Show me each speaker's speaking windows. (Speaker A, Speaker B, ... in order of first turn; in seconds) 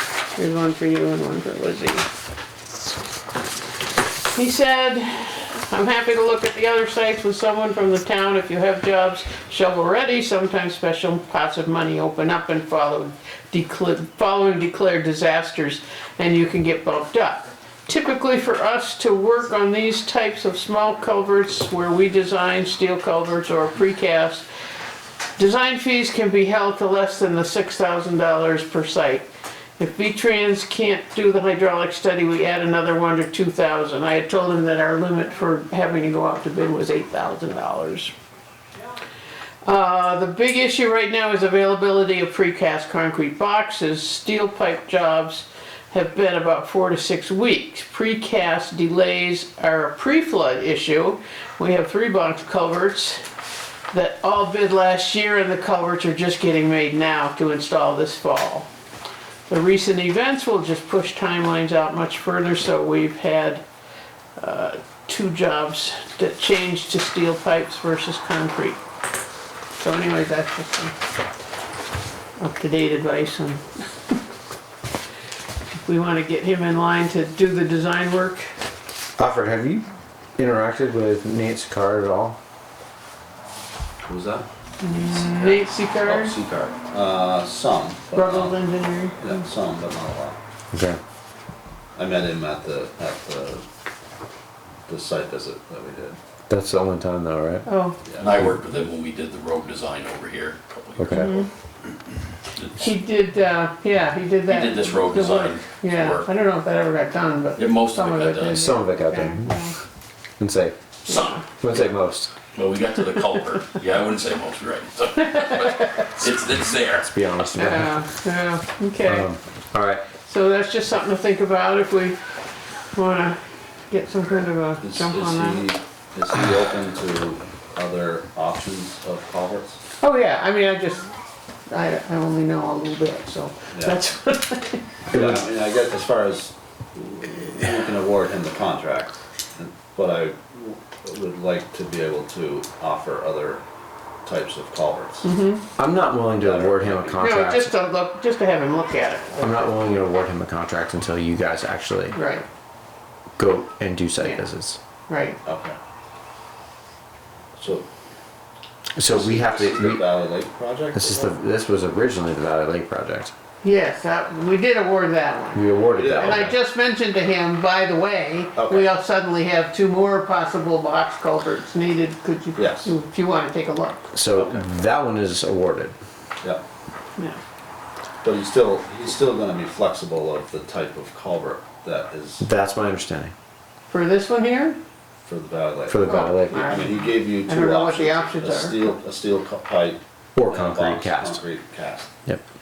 Speaker A: 0.3-2.0, 4.3-24.4, 25.4-29.3, 29.8-38.1, 39.6-53.2, 53.9-58.7, 59.5-63.6, 64.4-68.8, 69.8-70.9, 72.4-73.6, 75.8-78.5, 84.8-86.4, 88.1-89.3, 97.7-98.0, 101.1-101.5, 102.8-109.7, 111.1-111.4, 117.5-119.3, 120.2-122.2, 122.9-123.4, 123.9-125.7, 130.0-131.1, 131.7-134.8, 145.2-145.6, 147.2-150.0, 152.1-152.4, 155.1-155.4, 163.6-174.1, 183.9-184.8, 186.0-188.9
Speaker B: 79.2-79.8, 80.4-82.4, 90.7-91.0, 96.5-97.7, 101.0-101.3, 108.5-109.5, 110.4-110.8, 111.5-112.3, 117.0-118.0, 119.0-120.0, 145.8-147.7, 149.4-152.2, 153.4-154.8, 158.9-160.0, 160.9-163.3, 165.5-166.5, 174.1-175.9, 182.4-183.3, 185.9-186.8, 190.3-191.4
Speaker C: 84.0-88.5, 89.2-90.4, 92.0-93.6, 94.9-96.2, 98.0-98.4, 124.8-129.8, 133.7-134.0, 135.1-143.6, 144.2-145.2, 146.3-147.2, 155.4-155.8, 157.6-157.8, 159.1-161.3, 165.9-166.5, 168.6-168.9, 172.5-172.9, 178.2-182.4, 185.2-192.1
Speaker D: 98.2-101.4, 102.5-102.9, 104.5-106.3, 107.5-108.7, 111.0-111.4, 112.5-117.1